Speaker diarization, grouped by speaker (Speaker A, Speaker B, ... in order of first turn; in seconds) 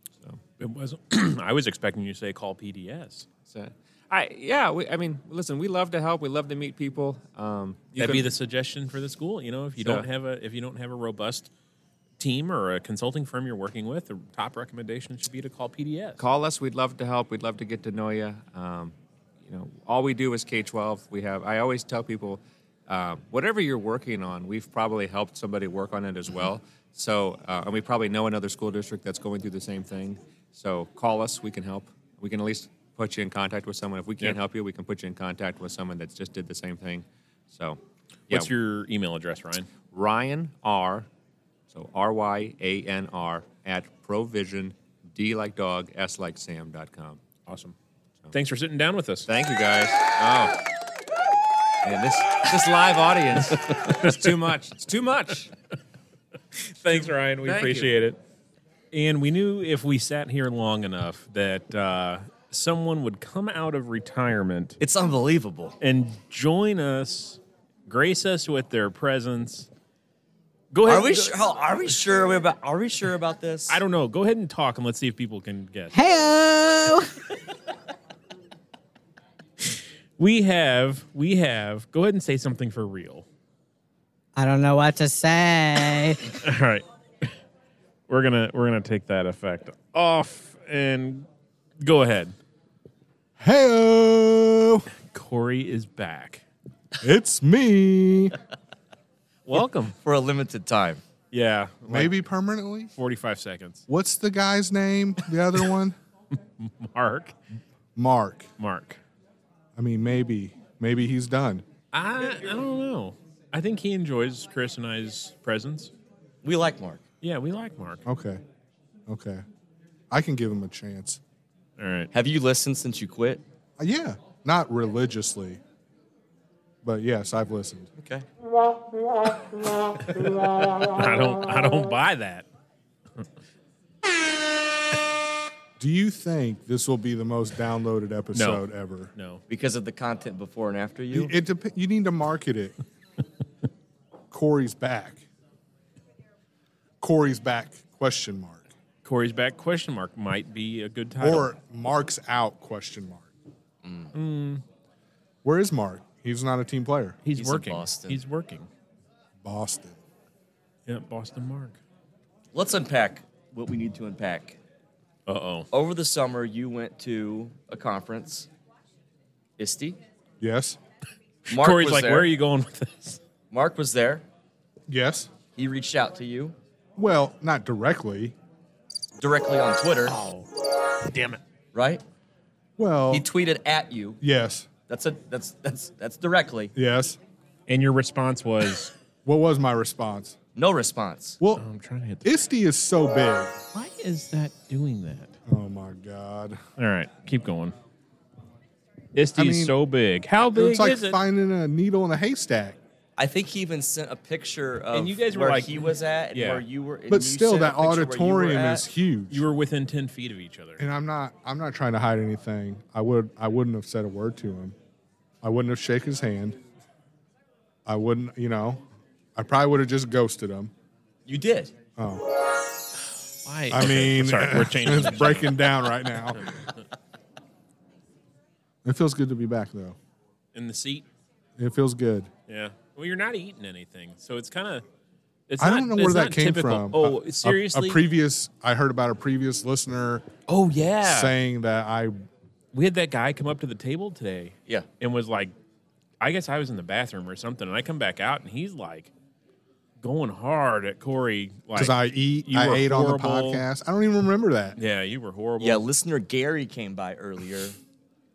Speaker A: 0.6-3.3, 8.0-11.5, 12.2-16.2, 38.3-39.7, 47.5-47.8, 48.3-49.3, 56.6-58.2, 58.9-64.8, 65.8-69.7, 70.7-71.3, 73.7-75.9, 80.2-83.3, 86.4-87.3, 88.1-91.3, 91.8-92.3, 95.1-96.4, 99.5-100.0, 101.3-102.2, 103.0-103.8, 106.6-107.3, 108.6-109.0, 111.9-115.9, 117.2-118.0, 121.8-122.1, 130.9-132.5, 138.3-138.6, 139.2-139.4, 149.0-151.5, 154.1-154.6, 157.2-158.7, 160.9-161.8, 165.3-165.7, 171.5-173.2, 180.1-180.5, 181.1-181.4, 187.7-188.9, 191.6-192.3, 193.7-195.4, 196.8-197.8, 199.2-201.2, 204.9-206.6, 209.3-210.8, 223.4-225.7, 230.5-231.1, 232.5-234.8, 235.5-238.0, 240.5-241.3, 242.7-245.5, 246.2-249.1, 250.0-253.6, 254.8-255.8
Speaker B: 3.5-8.3, 9.8-10.1, 16.2-38.5, 39.9-41.1, 41.7-47.2, 49.3-50.6, 51.8-55.5, 57.5-57.9
Speaker C: 64.8-65.8, 70.8-73.8, 100.0-101.0, 116.4-117.0, 122.1-123.4, 128.0-128.2, 139.5-141.3, 153.8-154.1, 157.3-158.2, 162.5-164.6, 165.7-168.5, 169.6-170.0, 171.5-172.3, 173.5-174.2, 175.6-176.6, 179.2-180.2, 181.7-182.0, 183.1-184.2, 184.9-186.7, 190.6-191.4, 203.2-208.9, 221.3-221.8, 255.6-257.8
Speaker D: 75.9-77.1, 84.4-86.3
Speaker E: 93.4-94.9, 97.0-98.3, 101.9-102.9, 103.9-106.0, 108.0-108.5, 109.8-111.6, 118.1-118.4, 119.1-119.4, 120.1-121.2, 123.8-125.6, 126.8-127.9, 135.8-139.1, 141.1-142.8, 144.3-145.2, 147.0-148.7, 151.2-153.3, 155.4-157.2, 159.4-160.0, 170.4-170.8, 174.9-175.3, 177.0-178.3, 182.8-183.3, 184.2-184.7, 186.8-187.2, 189.2-190.4, 192.2-193.6, 195.5-196.6, 199.3-199.8, 200.5-202.8, 207.1-209.4, 210.8-214.8, 215.4-216.6, 217.9-218.8, 219.4-220.7, 222.0-222.2, 223.7-226.7, 228.8-230.0, 231.6-232.3, 235.6-240.3, 241.0-242.2, 251.8-254.8